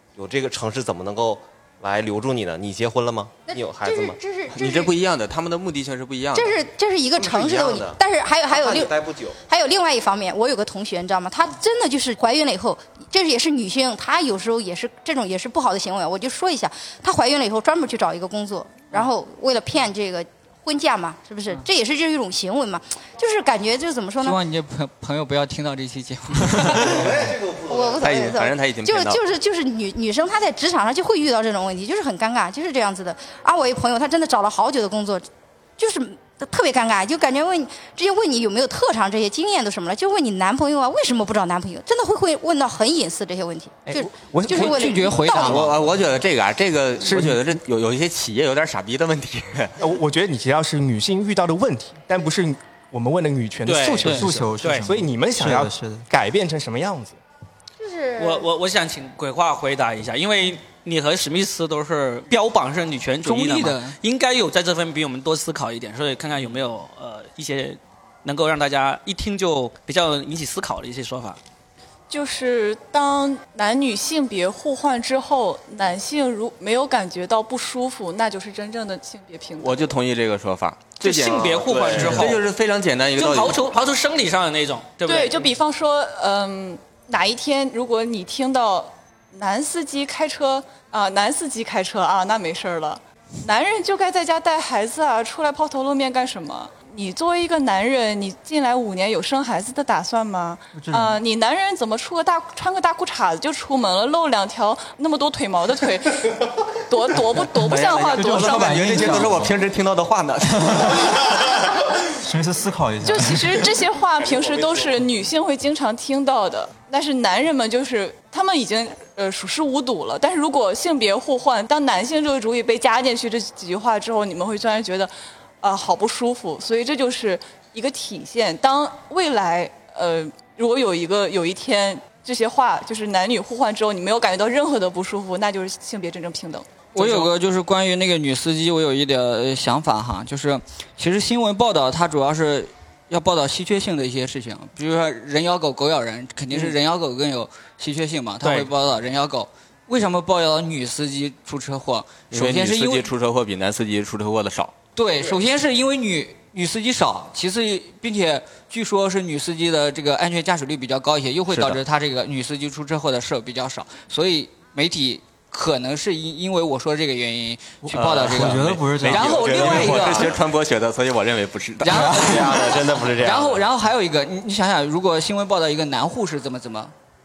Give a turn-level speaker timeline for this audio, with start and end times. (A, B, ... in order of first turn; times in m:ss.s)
0:00.2-0:04.2 A
0:03.5-0:04.9 B
0:04.5-0:06.6 C
0:06.3-0:24.4 B
0:07.2-0:09.4 A
0:24.2-0:27.0 D
0:26.8-0:28.2 A
0:27.7-0:35.3 B
0:28.0-0:29.2 C
0:35.8-0:45.7 B
0:43.9-0:45.1 E
0:44.5-0:45.8 D
0:45.3-0:49.7 C
0:49.8-0:57.2 E
0:53.7-0:54.9 F
0:54.0-0:56.1 G
0:57.8-0:58.5 B
0:58.2-1:11.4 F
1:03.2-1:04.0 D
1:12.1-1:20.0 H
1:19.6-1:23.7 C
1:21.0-1:22.4 F
1:21.3-1:22.3 A
1:23.2-1:25.5 F
1:25.0-1:49.4 H
1:40.7-1:41.2 G
1:47.6-1:51.3 C
1:48.2-1:49.6 G
1:50.6-1:51.1 G
1:52.1-1:53.7 G
1:53.0-2:17.3 H
2:17.0-2:33.1 D
2:28.4-2:28.7 F
2:32.3-2:34.7 C
2:35.0-2:50.4 D
2:41.5-2:41.8 C
2:47.8-2:50.0 G
2:47.9-2:52.1 C
2:49.6-2:50.3 A
2:51.8-2:56.9 D
2:51.9-2:52.5 G
2:52.2-2:53.6 A